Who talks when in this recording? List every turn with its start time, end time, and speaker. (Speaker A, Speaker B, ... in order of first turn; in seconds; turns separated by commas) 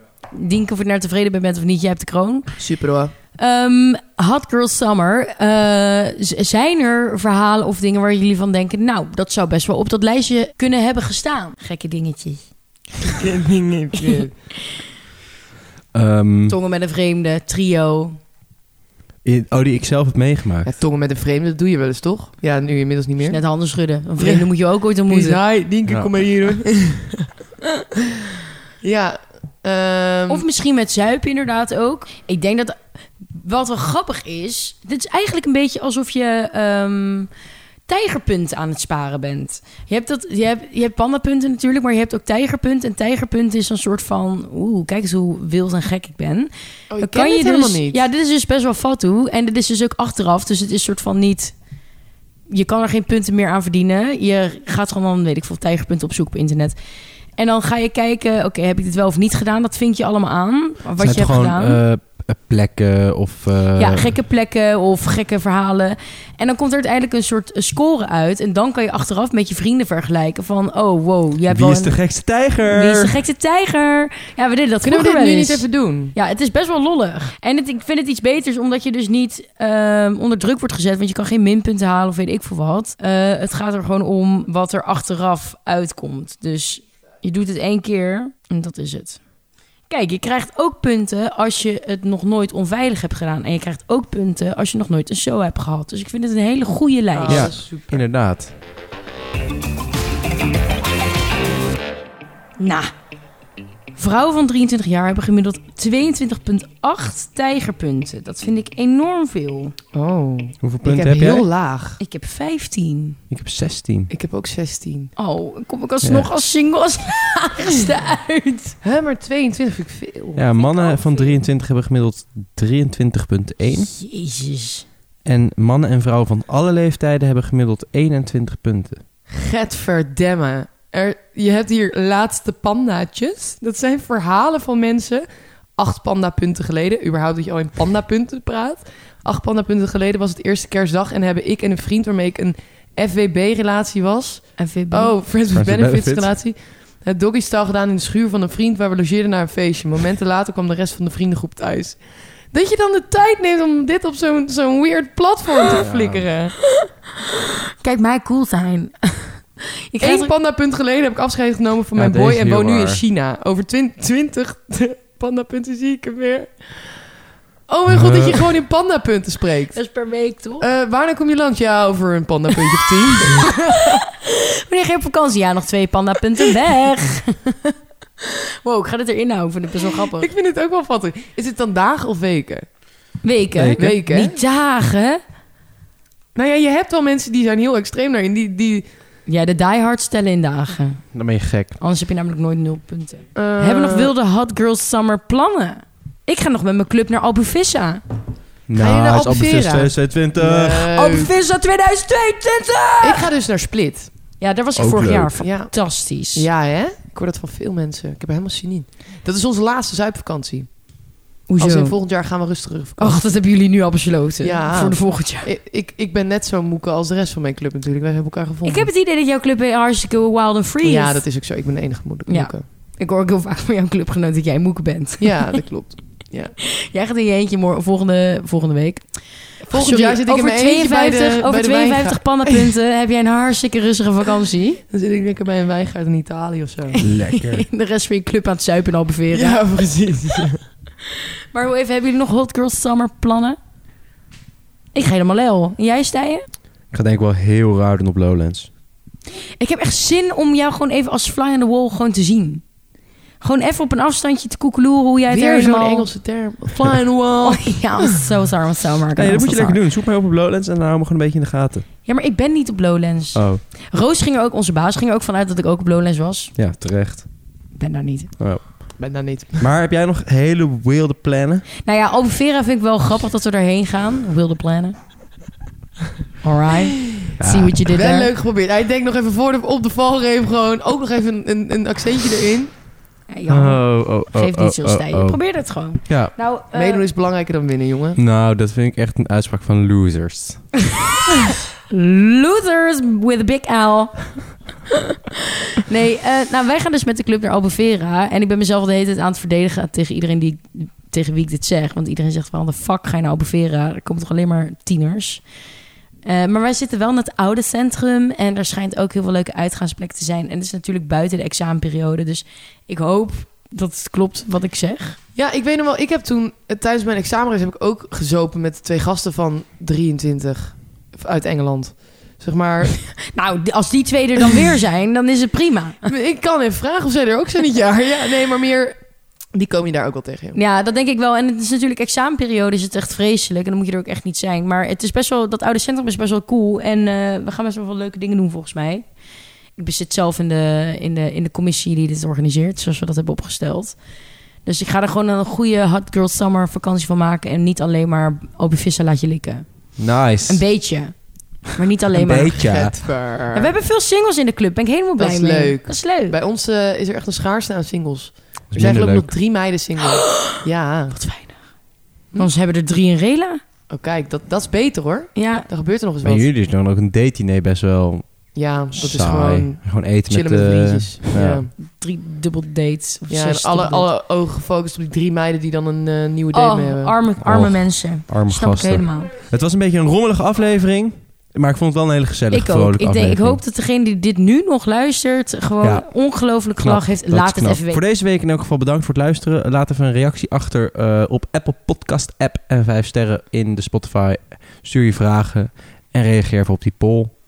Speaker A: 0.3-2.5, Speaker B: 2.6-3.1, Speaker A: 3.4-12.4, Speaker B: 13.1-14.3, Speaker C: 15.9-16.6, Speaker A: 16.5-18.2, Speaker C: 19.2-20.7, Speaker B: 20.6-23.4, Speaker A: 23.2-25.4, Speaker B: 24.2-24.5, Speaker B: 25.1-27.3, Speaker B: 28.8-30.4, Speaker A: 30.3-32.8, Speaker A: 33.3-37.3, Speaker A: 37.9-51.5, Speaker B: 46.9-48.0, Speaker A: 52.5-56.8, Speaker A: 57.4-61.8, Speaker C: 61.0-64.1, Speaker A: 63.8-72.0, Speaker C: 71.5-73.2, Speaker A: 72.6-89.2, Speaker B: 74.8-76.1, Speaker A: 89.9-97.5, Speaker B: 97.1-98.0, Speaker C: 97.3-98.5, Speaker A: 102.6-102.9, Speaker A: 103.9-109.7, Speaker B: 109.9-112.0, Speaker C: 110.6-111.4, Speaker A: 112.0-113.2, Speaker C: 113.3-114.1, Speaker B: 114.1-115.1, Speaker A: 115.2-118.8, Speaker C: 116.0-116.3, Speaker B: 118.8-121.2, Speaker C: 120.3-123.9, Speaker A: 123.9-124.8, Speaker C: 125.2-129.0, Speaker B: 129.3-135.2, Speaker B: 135.8-152.0, Speaker A: 144.6-145.1, Speaker C: 145.5-146.3, Speaker B: 152.5-156.5, Speaker C: 155.7-156.2, Speaker A: 157.8-160.3, Speaker B: 160.0-166.5, Speaker C: 161.9-163.0, Speaker B: 167.7-169.8, Speaker C: 167.9-168.5, Speaker A: 169.7-170.6, Speaker B: 170.6-174.0, Speaker A: 173.2-180.3, Speaker B: 180.1-182.6, Speaker A: 183.2-185.2, Speaker C: 183.5-183.9, Speaker B: 183.8-184.4, Speaker B: 186.3-188.8, Speaker A: 189.3-191.0, Speaker C: 191.1-191.8, Speaker A: 191.8-198.0, Speaker B: 193.3-194.1, Speaker C: 198.7-200.9, Speaker B: 198.8-201.3, Speaker A: 200.9-203.3, Speaker B: 203.0-204.1, Speaker A: 204.4-206.4, Speaker C: 204.8-205.3, Speaker B: 205.4-205.7, Speaker B: 206.3-210.8, Speaker A: 211.5-211.9, Speaker B: 211.6-213.2, Speaker A: 213.0-215.5, Speaker B: 214.4-218.9, Speaker A: 218.6-221.2, Speaker B: 220.8-222.6, Speaker A: 222.3-225.6, Speaker B: 225.2-226.5, Speaker A: 226.6-229.1, Speaker B: 229.7-232.7, Speaker A: 229.7-234.8, Speaker B: 234.9-237.0, Speaker C: 237.0-237.7, Speaker A: 237.3-239.6, Speaker B: 239.3-240.6, Speaker A: 241.5-243.6, Speaker A: 244.9-246.4, Speaker C: 246.9-248.7, Speaker A: 249.6-252.6, Speaker A: 253.4-256.1, Speaker B: 255.3-258.2, Speaker A: 257.4-259.8, Speaker C: 259.1-261.8, Speaker A: 262.1-266.5, Speaker C: 263.3-263.6, Speaker C: 266.6-267.2, Speaker A: 267.8-268.3, Speaker C: 268.4-268.9, Speaker B: 269.0-269.7, Speaker C: 269.6-271.6, Speaker A: 271.8-274.9, Speaker A: 276.4-278.3, Speaker C: 277.4-277.8, Speaker B: 277.8-282.8, Speaker A: 283.3-287.0, Speaker C: 283.5-285.4, Speaker C: 286.1-286.3, Speaker B: 286.7-288.2, Speaker C: 288.2-290.7, Speaker A: 291.9-294.5, Speaker A: 295.8-305.4, Speaker A: 306.2-315.2, Speaker B: 315.4-323.1, Speaker A: 323.2-326.0, Speaker B: 326.1-329.0, Speaker B: 329.5-330.6, Speaker A: 330.5-339.0, Speaker A: 339.8-343.9, Speaker A: 344.6-349.8, Speaker C: 350.0-350.6, Speaker A: 350.4-352.9, Speaker C: 352.1-353.0, Speaker B: 352.6-353.7, Speaker A: 353.5-356.4, Speaker B: 355.2-361.2, Speaker C: 358.7-359.3, Speaker A: 360.2-360.6, Speaker A: 361.1-361.6, Speaker A: 362.3-363.6, Speaker B: 363.9-366.5, Speaker A: 365.3-365.7, Speaker C: 366.2-368.2, Speaker B: 368.5-371.7, Speaker C: 368.9-371.6, Speaker A: 371.9-374.1, Speaker B: 373.3-377.1, Speaker A: 376.5-379.3, Speaker C: 377.4-383.6, Speaker A: 382.5-388.0, Speaker C: 385.8-397.3